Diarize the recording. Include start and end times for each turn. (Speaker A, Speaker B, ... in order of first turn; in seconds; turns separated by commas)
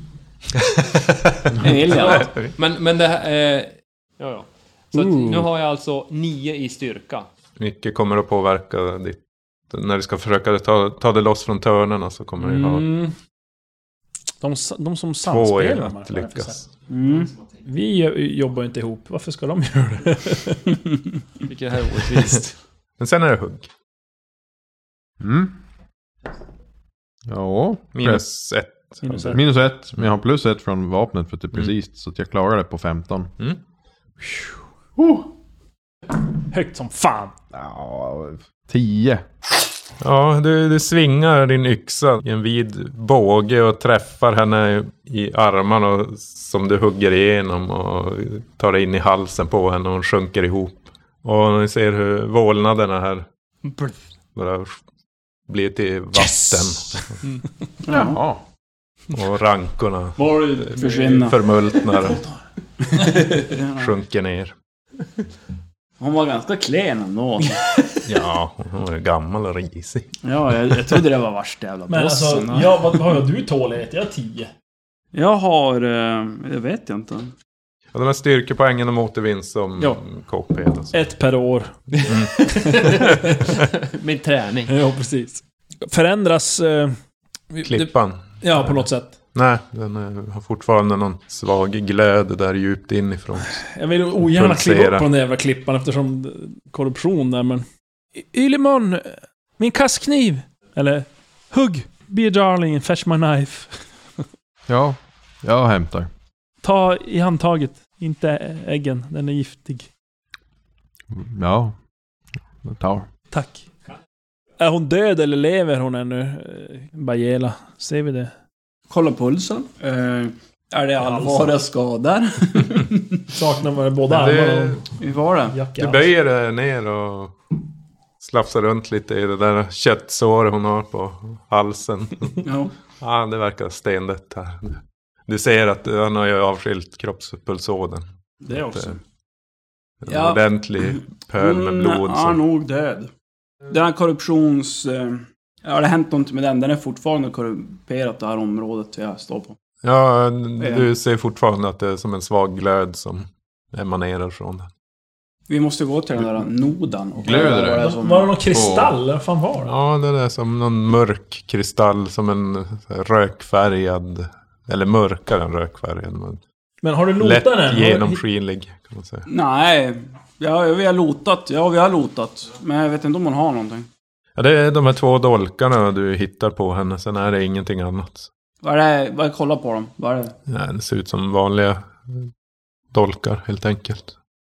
Speaker A: 0.6-2.5, Speaker B: 1.6-2.3, Speaker C: 1.9-7.3, Speaker D: 4.9-5.5, Speaker A: 7.6-9.2, Speaker A: 9.7-12.9, Speaker D: 12.4-13.1, Speaker D: 14.4-16.6, Speaker A: 15.2-16.7, Speaker B: 16.9-17.3, Speaker D: 17.6-20.8, Speaker C: 21.4-22.6, Speaker A: 23.0-23.7, Speaker E: 25.2-25.6, Speaker E: 27.3-28.2, Speaker A: 27.9-29.4, Speaker D: 29.0-29.4, Speaker E: 29.3-33.3, Speaker E: 35.0-35.3, Speaker D: 36.4-37.4, Speaker E: 37.5-39.3, Speaker A: 40.0-53.3, Speaker C: 53.6-54.0, Speaker A: 54.4-54.8, Speaker A: 55.5-57.2, Speaker D: 56.2-56.5, Speaker B: 57.9-58.2, Speaker E: 57.9-58.4, Speaker A: 59.1-62.2, Speaker B: 60.2-61.4, Speaker B: 63.0-63.9, Speaker A: 63.7-64.5, Speaker B: 66.0-67.6, Speaker A: 68.0-70.2, Speaker B: 70.2-73.0, Speaker A: 70.7-71.0, Speaker D: 71.9-74.5, Speaker B: 75.1-77.3, Speaker A: 77.9-81.0, Speaker D: 80.9-83.2, Speaker C: 81.9-84.7, Speaker A: 82.1-82.3, Speaker A: 82.8-83.2, Speaker D: 84.7-87.0, Speaker D: 87.5-89.2, Speaker A: 87.6-93.6, Speaker D: 93.5-97.7, Speaker A: 94.2-95.1, Speaker D: 98.2-103.8, Speaker E: 104.7-106.1, Speaker D: 106.6-109.9, Speaker E: 111.1-111.8, Speaker E: 112.6-113.1, Speaker D: 113.3-113.7, Speaker D: 114.6-118.3, Speaker B: 118.9-123.2, Speaker D: 121.0-121.5, Speaker D: 123.3-124.8, Speaker A: 124.1-124.9, Speaker B: 125.0-125.6, Speaker D: 125.5-126.0, Speaker A: 125.8-127.4, Speaker A: 128.2-132.4, Speaker B: 132.4-132.7, Speaker A: 133.0-139.0, Speaker B: 138.4-139.0, Speaker A: 140.0-142.4, Speaker B: 140.1-143.1, Speaker B: 143.7-149.6, Speaker A: 149.8-154.7, Speaker B: 150.6-150.9, Speaker B: 155.5-158.3, Speaker E: 157.2-157.9, Speaker D: 157.8-159.7, Speaker E: 158.5-158.9, Speaker A: 159.6-166.4, Speaker D: 166.8-168.2, Speaker A: 167.2-169.3, Speaker B: 169.3-173.9, Speaker A: 174.4-178.3, Speaker B: 178.6-180.3, Speaker A: 180.5-182.3, Speaker A: 182.9-184.1